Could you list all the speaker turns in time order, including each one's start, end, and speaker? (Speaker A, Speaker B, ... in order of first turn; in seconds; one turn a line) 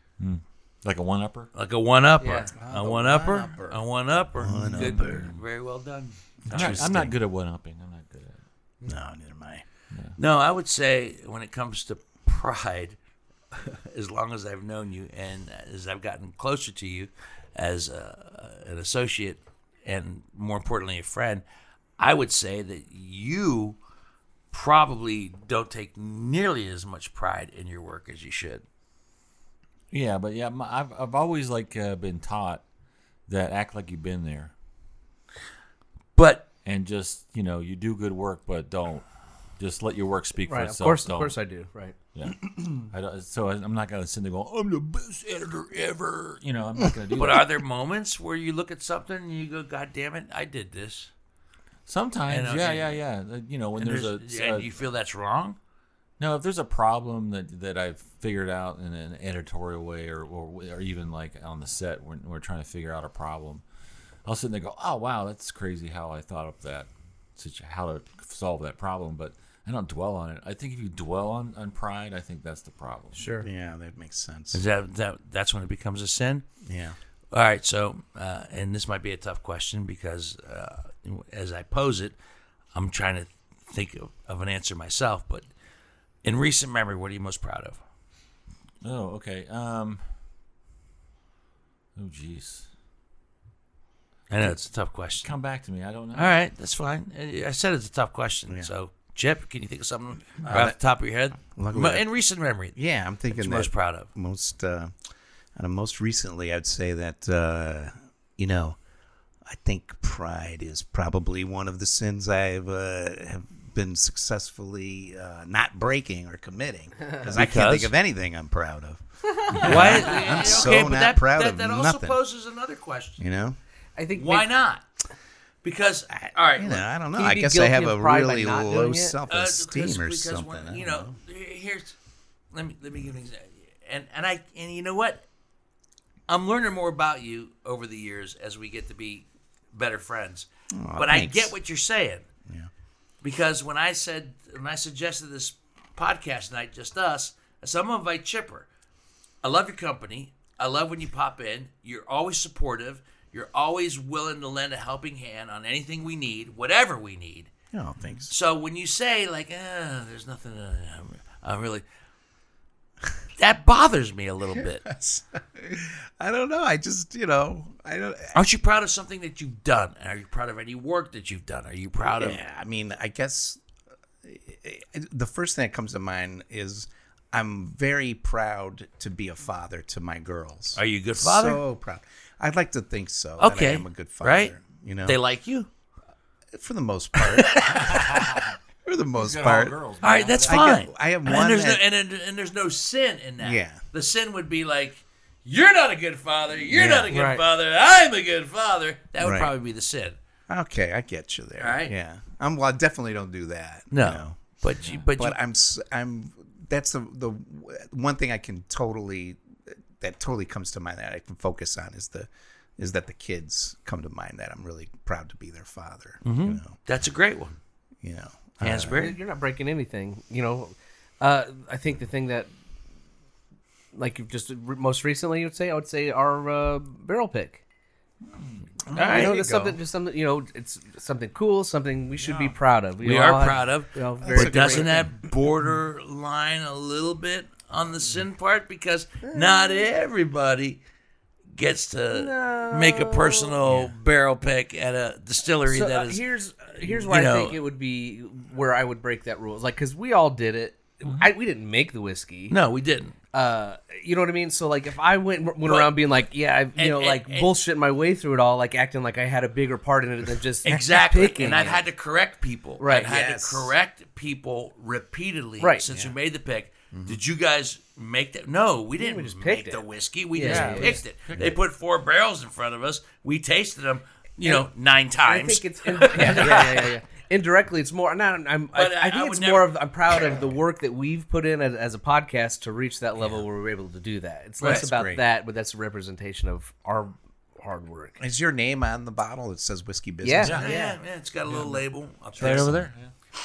Speaker A: 0.2-1.5
Speaker B: 1.5-7.0
Speaker C: 2.2-2.5
Speaker D: 2.6-5.2
Speaker A: 4.5-5.4
Speaker D: 6.5-7.2
Speaker A: 6.5-8.4
Speaker D: 8.8-9.6
Speaker A: 9.9-10.2
Speaker B: 10.2-13.0
Speaker B: 13.5-21.4
Speaker B: 22.0-23.8
Speaker B: 24.5-28.6
Speaker A: 29.9-32.6
Speaker A: 33.3-34.5
Speaker B: 36.2-36.5
Speaker A: 36.6-39.1
Speaker A: 39.6-41.4
Speaker C: 40.5-42.0
Speaker A: 42.1-47.5
Speaker B: 47.1-51.1
Speaker A: 51.9-54.7
Speaker B: 52.3-53.0
Speaker B: 53.8-55.6
Speaker A: 56.2-63.6
Speaker A: 64.2-73.3
Speaker C: 73.2-73.5
Speaker D: 73.4-74.6
Speaker B: 74.5-76.5
Speaker D: 76.6-77.0
Speaker B: 77.3-82.2
Speaker B: 82.7-85.5
Speaker B: 86.2-87.8
Speaker A: 88.8-90.0
Speaker A: 92.0-92.7
Speaker B: 94.3-95.3
Speaker A: 95.2-96.4
Speaker B: 96.1-102.8
Speaker D: 100.5-100.8
Speaker D: 101.5-102.1
Speaker D: 102.8-105.0
Speaker B: 103.3-104.1
Speaker D: 105.6-108.8
Speaker D: 109.5-122.2
Speaker B: 117.3-117.9
Speaker B: 119.6-123.2
Speaker C: 120.1-120.5
Speaker D: 123.2-123.6
Speaker C: 124.0-124.5
Speaker B: 124.1-124.9
Speaker B: 125.6-126.9
Speaker D: 126.1-131.1
Speaker C: 127.2-129.2
Speaker B: 129.3-131.9
Speaker B: 132.5-135.2
Speaker B: 136.3-142.3
Speaker D: 140.7-141.6
Speaker B: 143.2-148.7
Speaker B: 149.4-157.5
Speaker D: 157.7-158.3
Speaker B: 158.3-161.8
Speaker B: 163.4-164.9
Speaker D: 164.8-168.4
Speaker B: 168.3-172.4
Speaker D: 172.2-173.6
Speaker D: 174.2-185.2
Speaker B: 180.8-181.6
Speaker B: 183.4-185.7
Speaker D: 186.5-188.2
Speaker B: 187.2-188.0
Speaker A: 187.8-188.6
Speaker D: 188.8-189.8
Speaker A: 189.2-190.8
Speaker B: 190.0-200.2
Speaker D: 190.4-191.8
Speaker D: 193.4-193.8
Speaker D: 196.7-197.1
Speaker C: 197.1-197.4
Speaker D: 199.2-199.5
Speaker D: 200.5-204.5
Speaker B: 201.6-201.9
Speaker B: 203.9-205.4
Speaker D: 205.2-216.8
Speaker B: 216.2-217.6
Speaker D: 218.0-219.0
Speaker B: 218.6-219.2
Speaker C: 218.9-222.5
Speaker C: 223.9-227.6
Speaker A: 228.2-228.7
Speaker D: 228.9-229.8
Speaker B: 228.9-229.4
Speaker C: 229.0-235.1
Speaker A: 232.2-232.6
Speaker B: 233.0-240.8
Speaker D: 234.2-235.2
Speaker C: 239.2-239.9
Speaker B: 241.5-246.2
Speaker C: 242.1-243.6
Speaker C: 245.7-252.6
Speaker B: 246.8-247.6
Speaker A: 251.0-251.3
Speaker B: 252.5-253.2
Speaker C: 253.3-261.8
Speaker B: 255.7-255.9
Speaker B: 256.8-257.5
Speaker B: 260.6-276.9
Speaker C: 262.8-263.1
Speaker D: 263.1-263.7
Speaker C: 265.6-265.9
Speaker D: 266.9-267.2
Speaker C: 269.0-269.8
Speaker C: 270.4-271.0
Speaker A: 270.4-271.5
Speaker C: 275.2-288.2
Speaker B: 278.7-279.8
Speaker B: 284.6-284.9
Speaker D: 284.6-285.2
Speaker D: 288.2-290.7
Speaker C: 290.2-291.0
Speaker A: 290.4-290.7
Speaker B: 290.4-292.9
Speaker A: 291.5-291.8
Speaker A: 292.4-293.1
Speaker D: 292.4-292.7